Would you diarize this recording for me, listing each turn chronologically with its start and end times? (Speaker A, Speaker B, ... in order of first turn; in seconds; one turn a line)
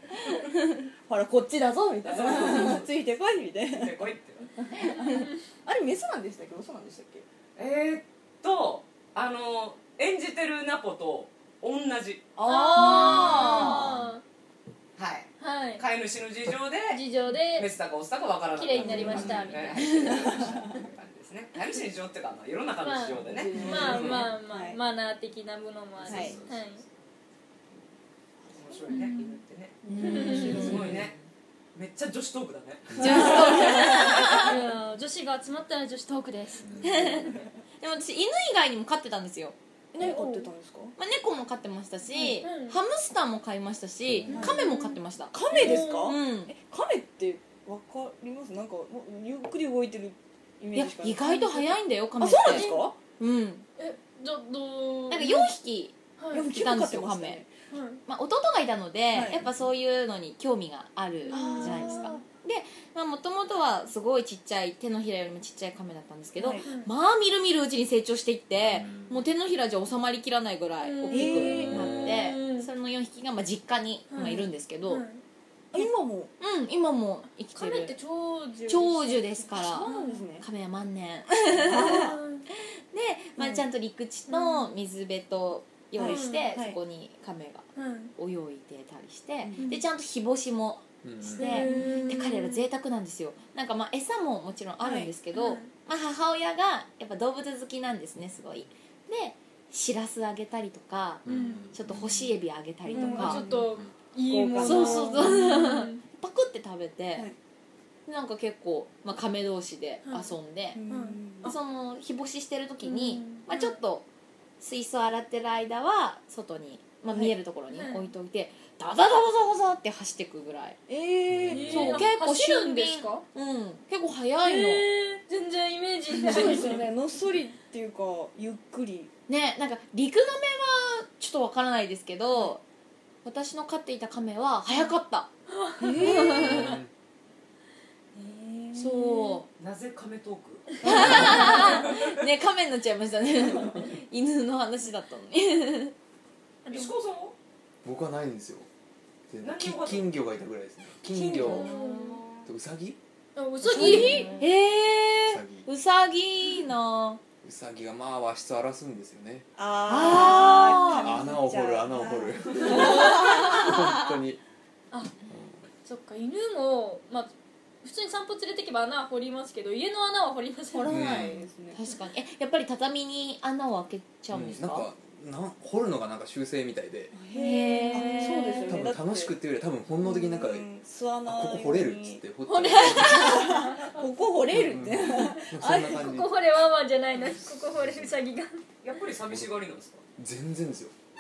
Speaker A: 1.1-7.2
Speaker B: 2.0-2.9
Speaker B: 3.7-4.5
Speaker C: 4.8-5.2
Speaker B: 7.5-12.3
Speaker A: 12.4-13.9
Speaker C: 12.4-13.9
Speaker D: 12.4-14.2
Speaker B: 15.0-17.0
Speaker D: 15.4-15.8
Speaker D: 16.9-17.7
Speaker B: 17.5-24.3
Speaker D: 18.5-20.0
Speaker A: 18.8-20.5
Speaker C: 19.8-20.1
Speaker D: 22.8-26.8
Speaker A: 23.2-24.8
Speaker B: 26.0-26.6
Speaker A: 26.1-26.4
Speaker B: 28.5-31.1
Speaker D: 28.9-29.4
Speaker A: 29.8-30.7
Speaker C: 29.9-30.9
Speaker D: 30.0-30.7
Speaker E: 30.8-31.1
Speaker B: 31.7-34.0
Speaker C: 33.0-34.6
Speaker A: 33.0-34.2
Speaker D: 33.2-37.3
Speaker E: 36.6-37.0
Speaker C: 36.8-40.2
Speaker A: 40.0-40.9
Speaker D: 40.0-40.5
Speaker C: 41.0-46.5
Speaker D: 42.1-42.8
Speaker E: 44.1-44.4
Speaker D: 44.3-46.2
Speaker A: 44.3-44.7
Speaker A: 45.3-51.5
Speaker C: 50.7-53.6
Speaker D: 51.2-51.6
Speaker A: 52.2-52.9
Speaker D: 52.4-52.9
Speaker D: 53.8-55.5
Speaker C: 55.1-57.4
Speaker D: 56.2-56.5
Speaker A: 56.3-57.5
Speaker D: 57.7-58.0
Speaker C: 58.0-75.0
Speaker A: 59.1-59.4
Speaker D: 61.3-62.2
Speaker A: 61.3-62.2
Speaker A: 66.4-66.7
Speaker D: 66.6-66.9
Speaker E: 68.5-69.2
Speaker D: 70.8-72.7
Speaker A: 71.1-72.0
Speaker E: 71.6-72.0
Speaker D: 74.1-75.2
Speaker A: 74.2-74.4
Speaker A: 75.7-76.3
Speaker C: 76.4-78.0
Speaker D: 77.5-80.3
Speaker C: 78.7-103.4
Speaker A: 79.5-80.5
Speaker A: 81.5-82.2
Speaker D: 81.7-82.5
Speaker A: 83.4-83.6
Speaker D: 84.3-84.7
Speaker A: 86.0-86.8
Speaker D: 86.0-86.5
Speaker D: 87.7-88.1
Speaker A: 89.4-89.8
Speaker E: 91.0-91.6
Speaker D: 91.3-92.7
Speaker A: 94.8-95.1
Speaker D: 95.3-95.7
Speaker E: 101.2-102.3
Speaker D: 101.3-101.6
Speaker A: 102.8-105.4
Speaker D: 102.9-106.0
Speaker C: 104.6-107.3
Speaker C: 108.0-114.0
Speaker D: 110.0-110.3
Speaker A: 110.7-111.5
Speaker D: 110.9-111.6
Speaker D: 112.8-113.8
Speaker C: 114.6-120.8
Speaker D: 117.7-118.1
Speaker A: 120.9-122.0
Speaker E: 121.3-121.8
Speaker D: 121.5-123.2
Speaker C: 121.6-124.9
Speaker D: 124.4-126.9
Speaker A: 126.1-129.1
Speaker C: 129.3-132.6
Speaker C: 133.2-135.3
Speaker D: 135.5-136.6
Speaker A: 135.8-136.8
Speaker C: 135.9-136.7
Speaker E: 136.3-136.9
Speaker D: 138.2-139.3
Speaker C: 138.7-139.5
Speaker B: 139.6-142.1
Speaker C: 140.8-145.9
Speaker D: 146.6-146.9
Speaker B: 146.7-147.3
Speaker E: 147.8-148.7
Speaker E: 149.3-151.8
Speaker B: 149.4-150.1
Speaker A: 151.0-152.4
Speaker D: 151.4-152.2
Speaker C: 151.4-152.1
Speaker E: 152.4-153.0
Speaker D: 153.3-154.3
Speaker C: 153.6-157.2
Speaker A: 153.7-154.3
Speaker E: 153.8-154.2
Speaker E: 155.2-155.7
Speaker E: 157.4-159.5
Speaker A: 159.6-164.1
Speaker C: 159.9-161.2
Speaker E: 160.1-164.4
Speaker C: 162.7-163.6
Speaker E: 165.3-165.7
Speaker D: 165.8-171.0
Speaker A: 170.7-171.8
Speaker E: 170.9-171.4
Speaker C: 171.7-174.9
Speaker E: 174.3-177.2
Speaker A: 177.1-179.4
Speaker C: 177.3-178.9
Speaker D: 177.9-178.6
Speaker E: 178.7-180.7
Speaker A: 180.0-182.2
Speaker E: 181.2-183.5
Speaker D: 182.4-184.3
Speaker A: 183.1-186.0
Speaker E: 184.5-186.4
Speaker D: 185.0-188.6
Speaker E: 187.7-188.1
Speaker B: 188.8-190.0
Speaker E: 190.2-190.9